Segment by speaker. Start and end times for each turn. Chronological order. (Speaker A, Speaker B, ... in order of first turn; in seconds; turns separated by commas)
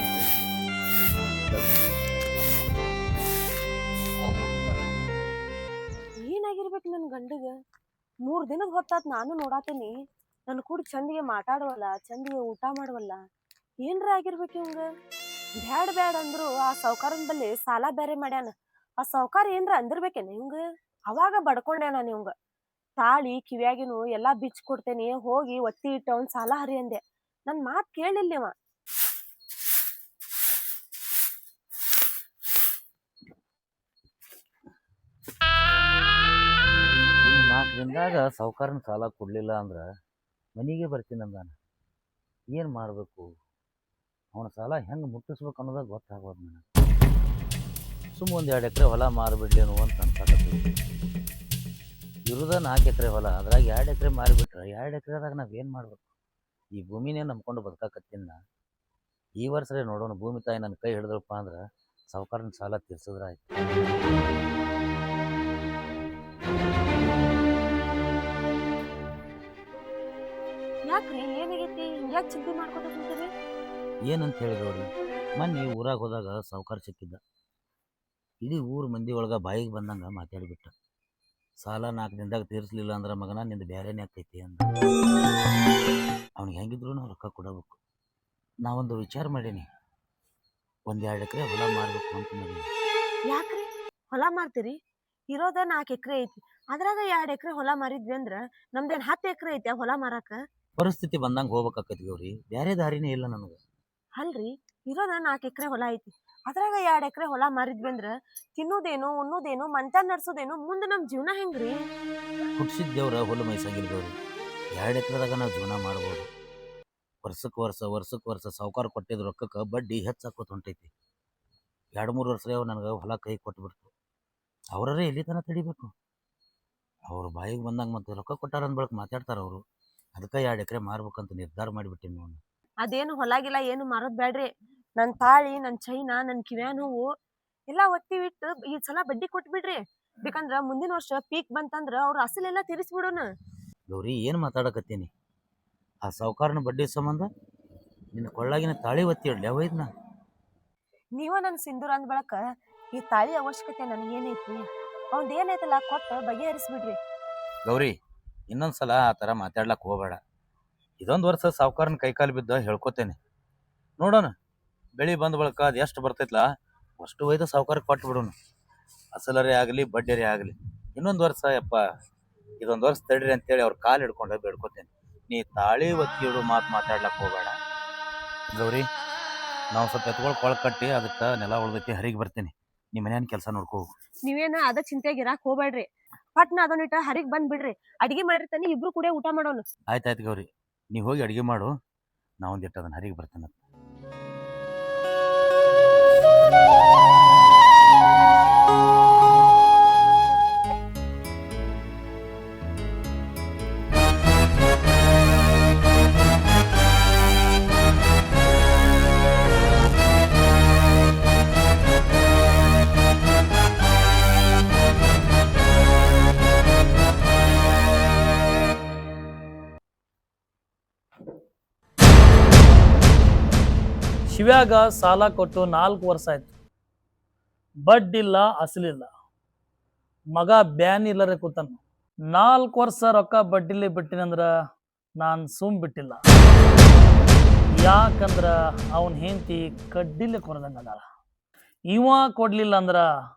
Speaker A: 6.2-7.5, Speaker A: 8.2-9.9, Speaker A: 10.5-13.2, Speaker A: 13.8-14.8, Speaker A: 15.6-22.3, Speaker A: 23.0-28.5, Speaker B: 37.2-39.8, Speaker B: 40.5-41.5, Speaker B: 42.5-43.3, Speaker B: 44.3-46.6, Speaker B: 48.1-50.7, Speaker B: 52.3-56.0, Speaker B: 56.7-58.4, Speaker B: 59.4-61.6, Speaker B: 62.1-63.4, Speaker A: 70.9-73.3, Speaker B: 74.1-74.8, Speaker B: 75.4-77.2, Speaker B: 78.4-80.7, Speaker B: 81.6-84.7, Speaker B: 86.4-87.8, Speaker B: 88.6-89.6, Speaker B: 90.9-92.7, Speaker A: 93.3-94.8, Speaker A: 95.3-100.4, Speaker B: 100.8-103.6, Speaker A: 104.2-111.8, Speaker B: 112.6-114.1, Speaker B: 114.8-116.3, Speaker B: 117.2-120.9, Speaker B: 122.0-123.9, Speaker B: 124.7-125.9, Speaker B: 127.1-129.6, Speaker B: 130.1-132.4, Speaker A: 132.8-137.0, Speaker A: 137.7-143.3, Speaker B: 143.9-145.1, Speaker B: 146.0-147.3, Speaker B: 148.1-149.9, Speaker A: 151.1-157.0, Speaker B: 157.6-157.9, Speaker B: 158.5-160.2, Speaker B: 161.0-163.2, Speaker B: 164.0-164.3, Speaker B: 165.0-166.4, Speaker B: 167.0-168.3, Speaker B: 169.1-171.8, Speaker B: 172.6-177.5, Speaker B: 178.5-178.8, Speaker B: 179.7-183.8, Speaker A: 184.2-189.6, Speaker B: 189.9-191.7, Speaker B: 192.4-193.5, Speaker C: 224.3-226.5, Speaker C: 227.8-229.1, Speaker C: 230.3-231.8, Speaker C: 232.3-234.5, Speaker C: 235.2-236.2, Speaker C: 237.8-241.0, Speaker C: 241.9-243.0